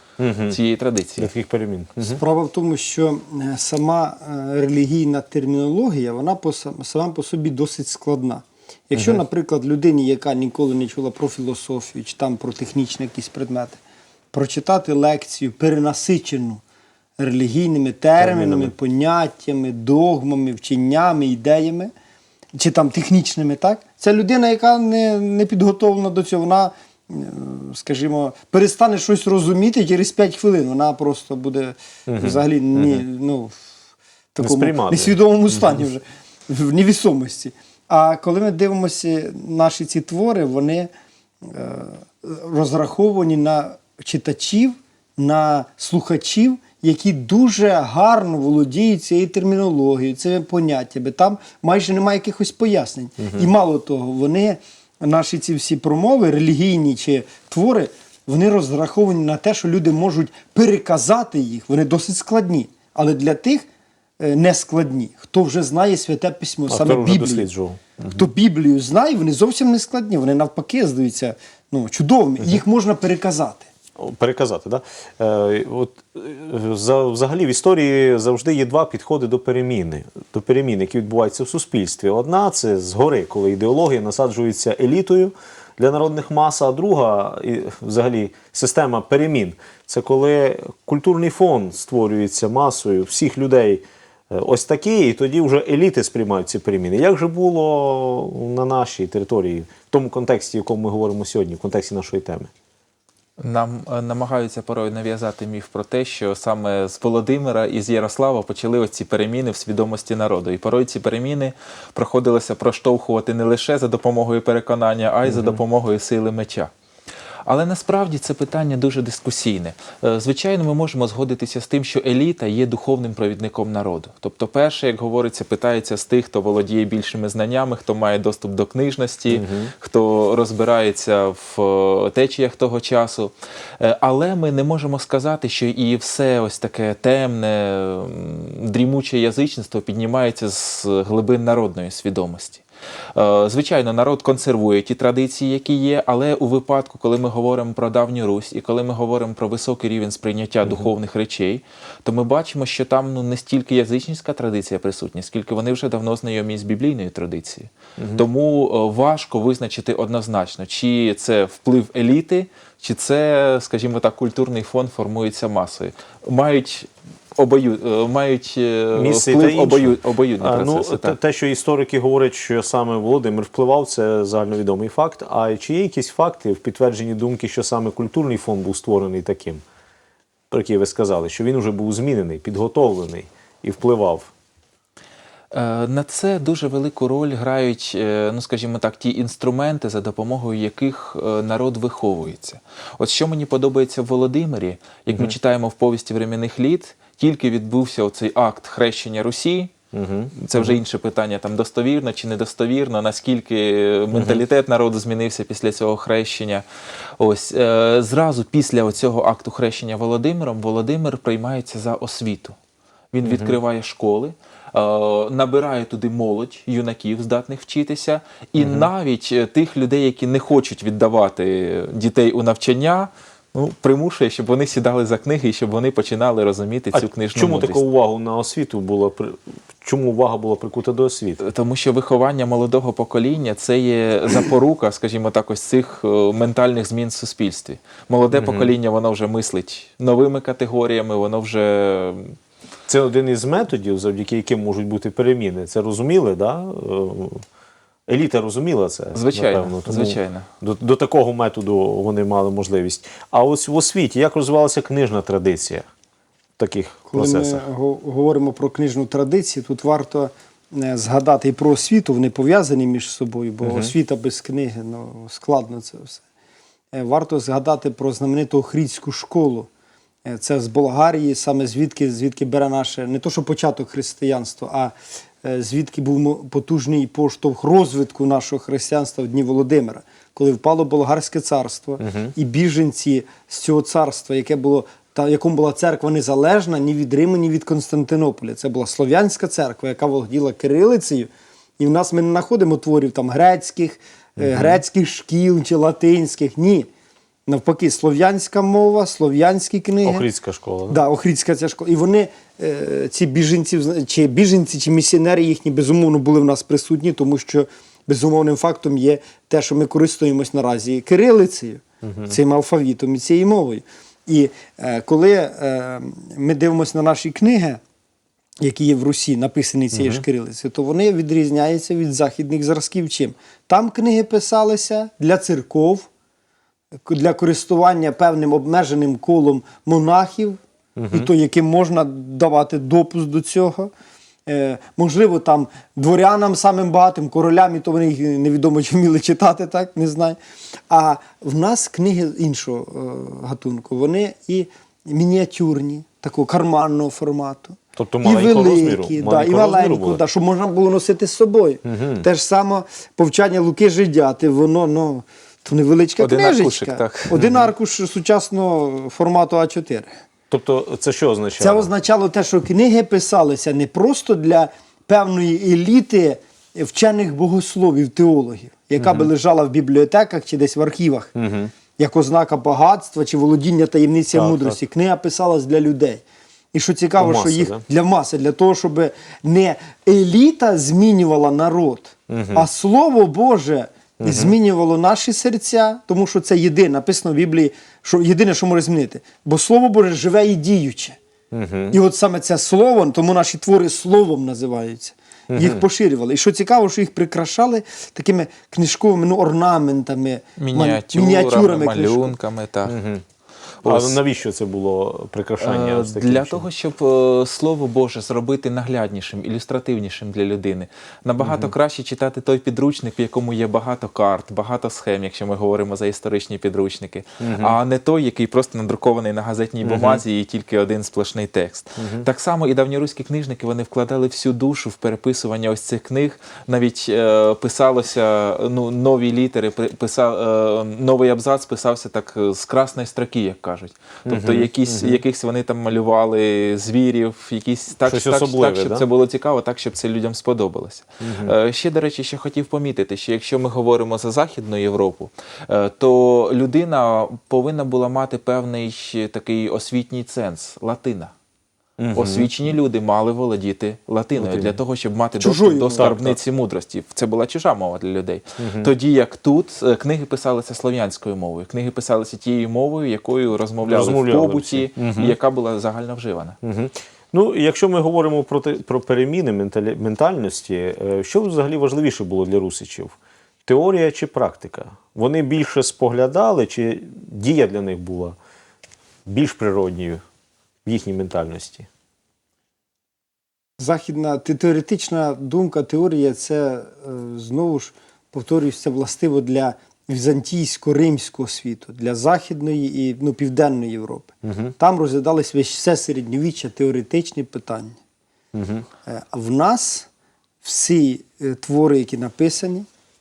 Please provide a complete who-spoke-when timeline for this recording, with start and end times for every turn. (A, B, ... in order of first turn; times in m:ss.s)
0:00.2-0:00.6 A
0:00.5-0:01.3 B
0:01.2-0:02.2 A
0:02.2-0:13.8 C
0:08.9-0:09.2 A
0:14.3-0:16.6 C
0:17.2-0:21.9 C
0:18.2-0:18.7 A
0:22.6-0:33.6 C
0:32.1-0:33.0 A
0:34.4-0:40.9 C
0:34.4-0:35.8 A
0:41.4-1:03.7 C
0:53.2-0:53.5 A
1:04.2-1:07.5 C
1:06.7-1:08.3 A
1:08.1-1:13.7 C
1:14.0-1:42.5 A
1:43.4-1:56.7 B
1:55.2-1:55.6 A
1:57.5-2:22.6 B
2:09.3-2:09.7 A
2:23.2-2:51.2 B
2:30.6-2:30.9 A
2:38.0-2:38.2 A
2:49.0-2:59.6 A
3:00.5-3:04.3 A
3:05.5-3:19.7 B
3:19.9-3:20.8 A
3:20.4-3:26.6 B
3:24.1-3:24.4 A
3:27.2-3:32.6 B
3:33.1-3:47.8 B
3:33.2-3:33.6 A
3:38.6-3:38.9 A
3:46.9-3:51.4 A
3:51.4-4:02.4 B
3:58.3-3:58.7 A
4:02.9-4:07.4 A
4:08.1-4:15.9 A
4:09.2-4:10.5 B
4:16.6-4:17.6 A
4:17.1-4:26.2 C
4:23.6-4:23.9 A
4:26.9-4:29.7 C
4:30.2-4:56.9 C
4:42.0-4:42.3 A
4:54.4-4:54.8 A
4:57.5-5:00.2 C
5:00.0-5:01.0 A
5:00.9-5:17.8 C
5:12.0-5:12.4 A
5:18.6-5:26.1 C
5:19.9-5:20.2 A
5:27.1-5:30.6 C
5:31.0-5:31.3 A
5:31.1-5:33.9 C
5:34.5-5:40.4 C
5:40.9-6:00.2 C
5:48.0-5:50.2 A
5:51.8-5:52.2 A
5:56.2-5:57.4 B
5:57.3-5:57.7 A
6:00.5-6:01.9 A
6:01.6-6:11.3 C
6:09.0-6:09.3 A
6:11.4-6:11.7 A
6:12.0-6:31.2 C
6:14.3-6:14.8 A
6:17.2-6:17.8 A
6:22.3-6:22.7 A
6:24.2-6:24.6 A
6:31.5-6:32.0 A
6:31.9-6:42.4 C
6:35.5-6:35.9 A
6:40.6-6:43.0 B
6:42.9-6:43.2 A
6:43.8-6:44.2 B
6:43.8-6:46.6 A
6:45.6-7:31.3 B
6:51.4-6:51.7 A
6:57.4-6:57.8 A
6:59.8-7:00.2 A
7:02.0-7:02.3 A
7:14.3-7:15.2 A
7:18.1-7:19.1 A
7:21.2-7:21.5 A
7:32.0-7:32.5 A
7:32.1-7:46.6 B
7:34.4-7:34.8 A
7:35.4-7:36.1 C
7:36.0-7:36.4 A
7:38.6-7:38.9 A
7:43.8-7:45.4 A
7:46.6-7:53.2 A
7:53.7-7:58.4 A
7:59.3-8:00.2 A
8:00.8-8:01.9 A
8:03.8-8:18.0 C
8:14.4-8:14.7 A
8:18.5-8:18.9 A
8:19.1-8:20.1 C
8:20.6-8:22.9 C